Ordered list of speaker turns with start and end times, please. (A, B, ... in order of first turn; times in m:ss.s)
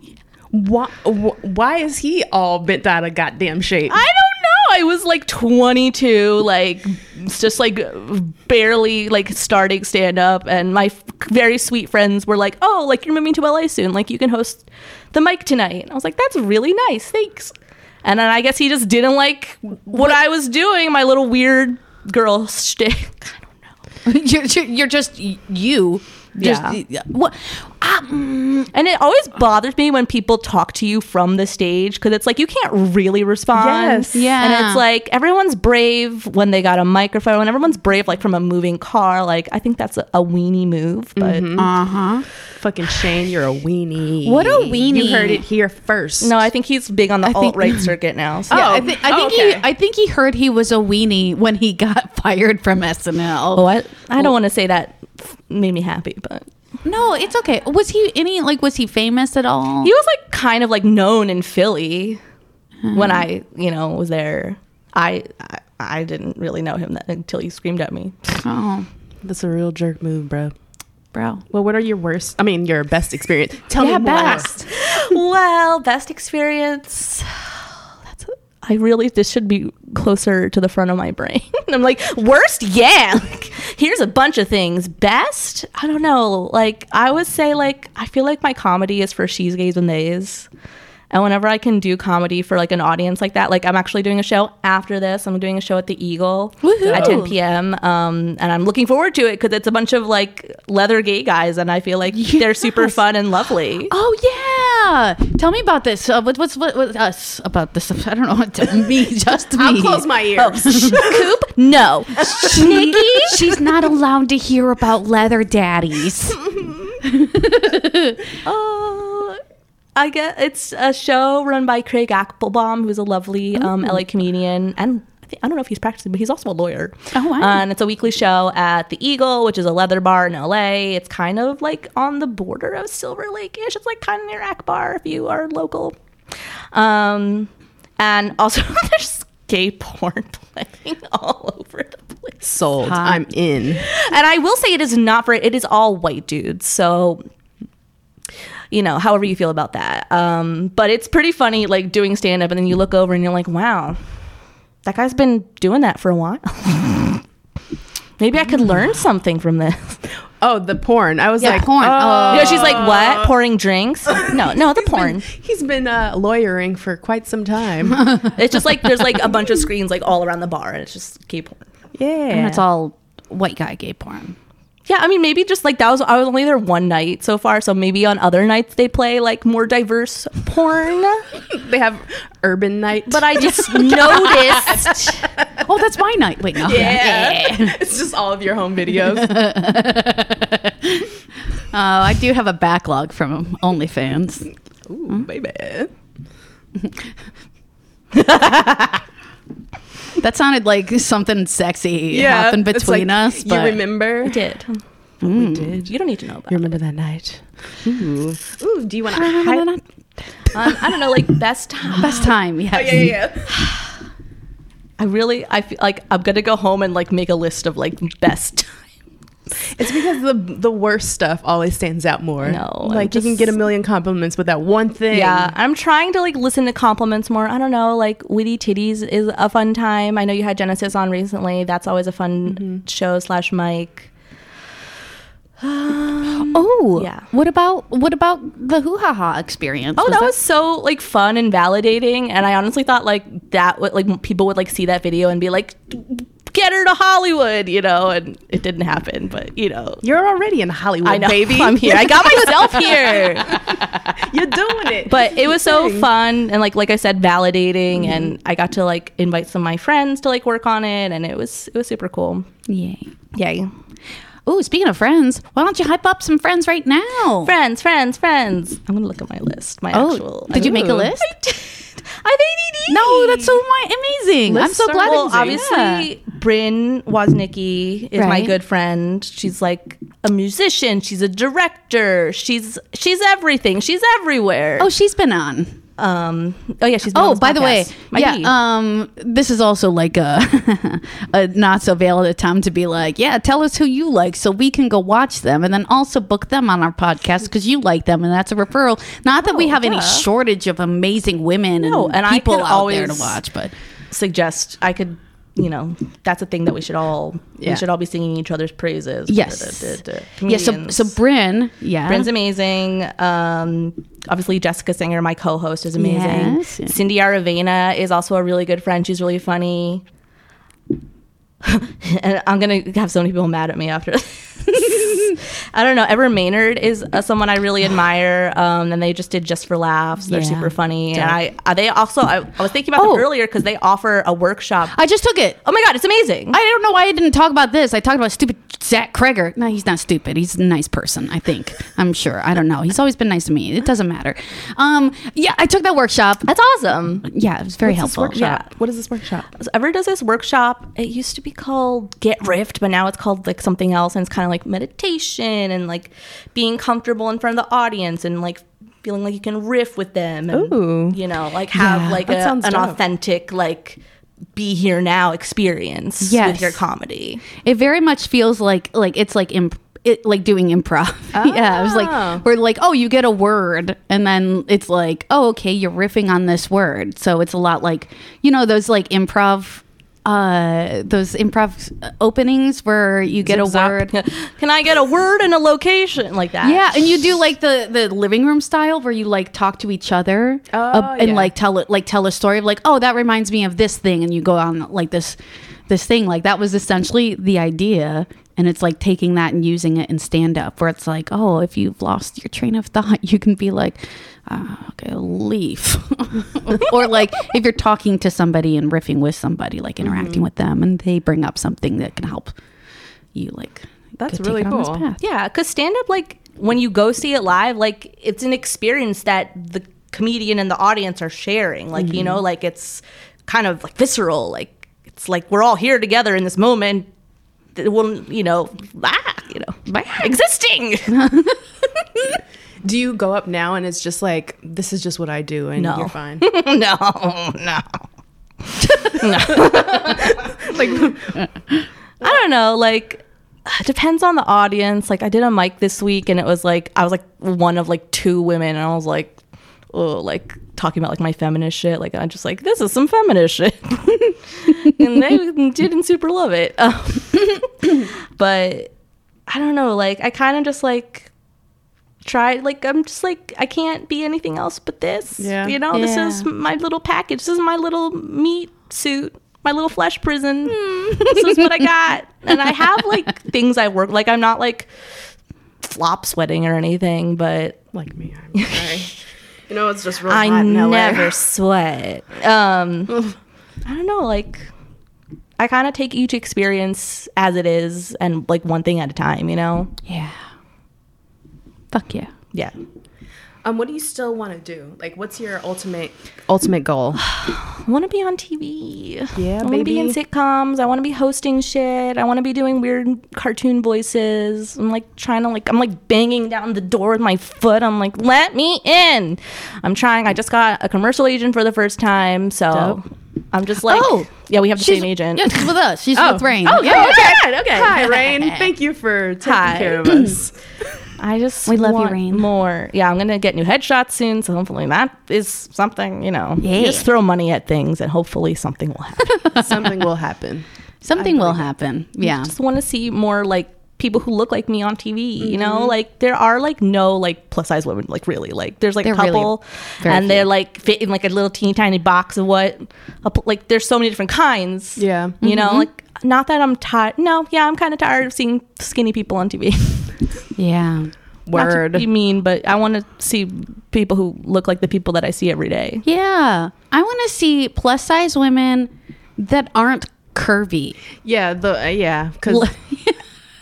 0:00.5-0:04.0 A
0:03.9-0:17.5 B
0:18.0-0:23.6 B
0:24.0-0:28.7 C
0:26.4-0:26.8 B
0:28.7-0:41.6 B
0:33.5-0:34.2 A
0:34.1-0:34.8 C
0:41.2-0:41.7 A
0:41.6-0:42.2 C
0:42.5-0:46.4 A
0:44.2-0:45.4 C
0:46.2-0:48.9 B
0:47.3-0:47.9 C
0:48.5-0:53.7 C
0:48.5-0:49.7 A
0:53.5-0:56.5 B
0:56.8-0:59.9 C
0:59.8-1:02.2 B
1:02.8-1:03.2 C
1:02.9-1:08.4 B
1:08.4-1:08.9 C
1:09.2-1:10.5 A
1:11.1-1:11.4 C
1:11.5-1:14.5 A
1:13.8-1:14.6 C
1:14.2-1:30.5 B
1:31.1-1:43.9 B
1:36.6-1:37.4 C
1:36.9-1:37.2 A
1:42.1-1:43.0 C
1:43.9-1:51.1 C
1:49.5-1:51.2 A
1:50.4-1:53.7 B
1:52.3-1:56.4 C
1:57.0-1:58.3 C
1:58.4-1:59.4 B
2:00.0-2:16.0 B
2:07.1-2:07.6 C
2:16.7-2:22.5 B
2:22.4-2:23.8 A
2:22.8-2:23.2 C
2:23.8-2:27.2 B
2:28.7-2:34.0 B
2:34.8-2:37.2 B
2:38.2-2:40.0 B
2:40.4-2:43.3 A
2:41.4-2:42.8 C
2:42.3-2:45.3 B
2:44.2-2:48.1 A
2:48.2-2:51.7 B
2:52.0-2:52.6 A
2:52.3-2:54.4 C
2:54.9-3:01.2 B
3:01.5-3:05.6 A
3:03.1-3:05.3 B
3:03.6-3:04.8 C
3:05.6-3:07.8 C
3:06.6-3:09.4 A
3:06.7-3:07.0 B
3:08.9-3:11.1 C
3:11.7-3:14.5 C
3:14.9-3:15.9 A
3:18.1-3:19.0 B
3:20.2-3:23.8 C
3:22.1-3:24.5 A
3:24.2-3:24.8 B
3:25.2-3:25.8 C
3:25.3-3:25.9 A
3:25.8-3:26.7 B
3:26.5-3:29.7 A
3:29.1-3:29.8 C
3:30.5-3:32.3 B
3:32.0-3:33.2 C
3:32.1-3:33.6 A
3:33.5-3:33.8 B
3:35.0-3:38.8 B
3:39.7-3:45.5 A
3:42.4-3:43.5 B
3:45.1-3:54.1 B
3:52.5-3:52.8 A
3:55.6-3:57.3 B
3:56.5-4:00.3 C
4:00.0-4:10.0 B
4:10.0-4:16.1 A
4:11.0-4:13.6 B
4:15.1-4:22.5 B
4:22.7-4:23.1 C
4:23.3-4:23.7 B
4:24.5-4:27.5 C
4:27.4-4:33.6 B
4:29.9-4:31.4 C
4:32.9-4:36.1 C
4:34.5-4:35.6 A
4:34.9-4:44.9 B
4:38.2-4:38.6 C
4:44.8-4:45.8 C
4:46.0-4:48.5 B
4:47.1-5:03.7 C
4:59.4-5:00.3 B
5:01.8-5:03.4 B
5:04.1-5:11.1 B
5:07.6-5:07.8 A
5:09.3-5:12.3 C
5:12.1-5:20.0 B
5:16.0-5:17.0 C
5:21.6-5:35.0 B
5:24.9-5:25.3 C
5:30.3-5:30.8 C
5:31.1-5:31.4 A
5:33.0-5:33.3 C
5:34.9-5:35.6 C
5:35.6-5:36.6 B
5:36.5-5:46.5 C
5:46.4-5:47.3 B
5:47.2-5:48.4 C
5:47.8-5:49.5 A
5:48.3-5:48.7 B
5:49.6-6:04.0 B
6:00.5-6:01.2 A
6:01.8-6:02.2 C
6:01.8-6:03.0 A
6:04.6-6:07.4 B
6:06.2-6:06.8 C
6:07.6-6:24.1 C
6:11.3-6:12.4 A
6:23.4-6:24.0 A
6:24.1-6:27.3 B
6:26.6-6:52.6 C
6:30.7-6:31.5 A
6:50.0-6:50.4 A
6:53.3-6:55.2 C
6:54.2-6:55.1 A
6:55.2-7:07.1 B
7:02.0-7:02.4 A
7:07.8-7:11.3 B
7:09.9-7:10.3 C
7:11.1-7:11.6 C
7:12.8-7:16.4 A
7:15.8-7:18.0 B
7:18.6-7:21.0 B
7:19.9-7:21.2 A
7:22.2-7:29.4 B
7:29.9-7:38.9 B
7:39.5-7:41.3 B
7:42.2-7:54.9 B
7:45.4-7:45.8 A
7:45.9-7:46.5 C
7:50.7-7:51.7 C
7:55.8-7:57.8 B
7:57.9-7:59.1 A
7:58.6-7:59.0 B
7:59.7-8:01.4 A
8:00.3-8:03.3 B
8:03.8-8:04.7 B
8:05.6-8:09.9 B
8:10.1-8:10.4 C
8:11.9-8:12.3 C
8:13.6-8:17.2 A
8:17.2-8:35.7 B
8:19.4-8:20.2 A
8:32.7-8:33.0 C
8:33.9-8:37.4 C
8:36.2-8:40.5 A
8:36.6-8:38.2 B
8:38.1-8:38.7 C
8:39.4-8:40.3 B
8:41.2-8:49.7 B
8:41.7-8:42.5 C
8:46.6-8:47.1 C
8:49.5-8:51.7 A
8:51.0-8:52.5 C
8:52.2-9:10.2 B
8:55.4-8:56.0 A
8:59.0-9:00.5 C
9:05.0-9:05.4 A
9:05.4-9:05.9 C
9:10.6-9:11.1 C
9:11.5-9:12.1 A
9:11.6-9:16.0 B
9:16.0-9:21.0 C
9:21.2-9:22.7 A
9:22.5-9:23.1 C